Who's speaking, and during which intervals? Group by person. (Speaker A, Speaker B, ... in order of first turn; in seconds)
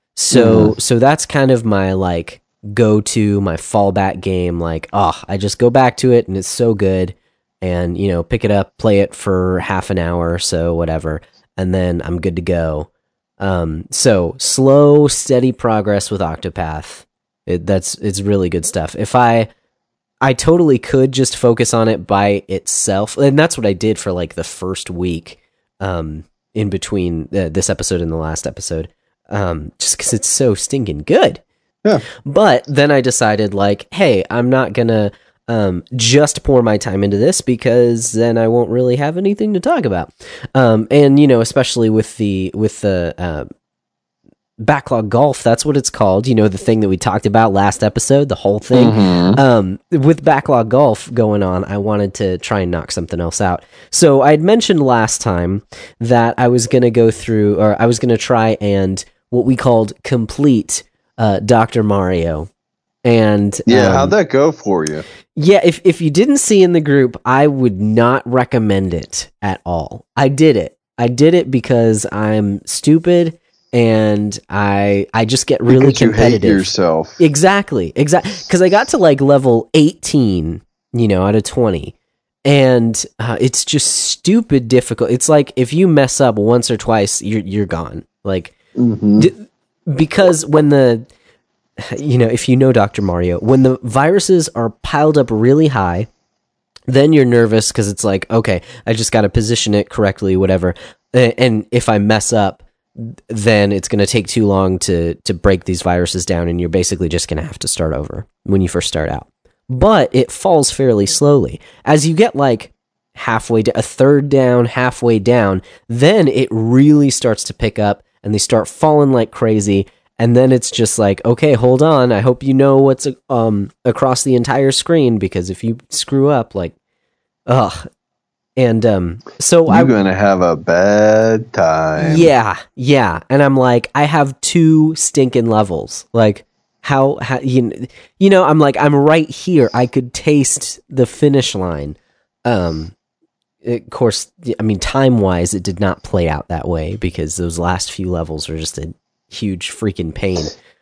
Speaker A: 0.2-12.9, 13.4-19.5, 20.2-31.4, 32.2-43.5, 44.6-62.5, 63.0-64.1, 65.4-81.9, 82.5-88.5, 89.2-91.0, 91.8-96.1, 96.9-126.8, 127.5-127.9, 128.6-129.9, 132.0-142.9, 143.6-150.6
Speaker B: 0.3-0.8, 48.7-49.4, 63.7-65.0, 75.7-77.2, 88.8-89.3, 129.7-132.3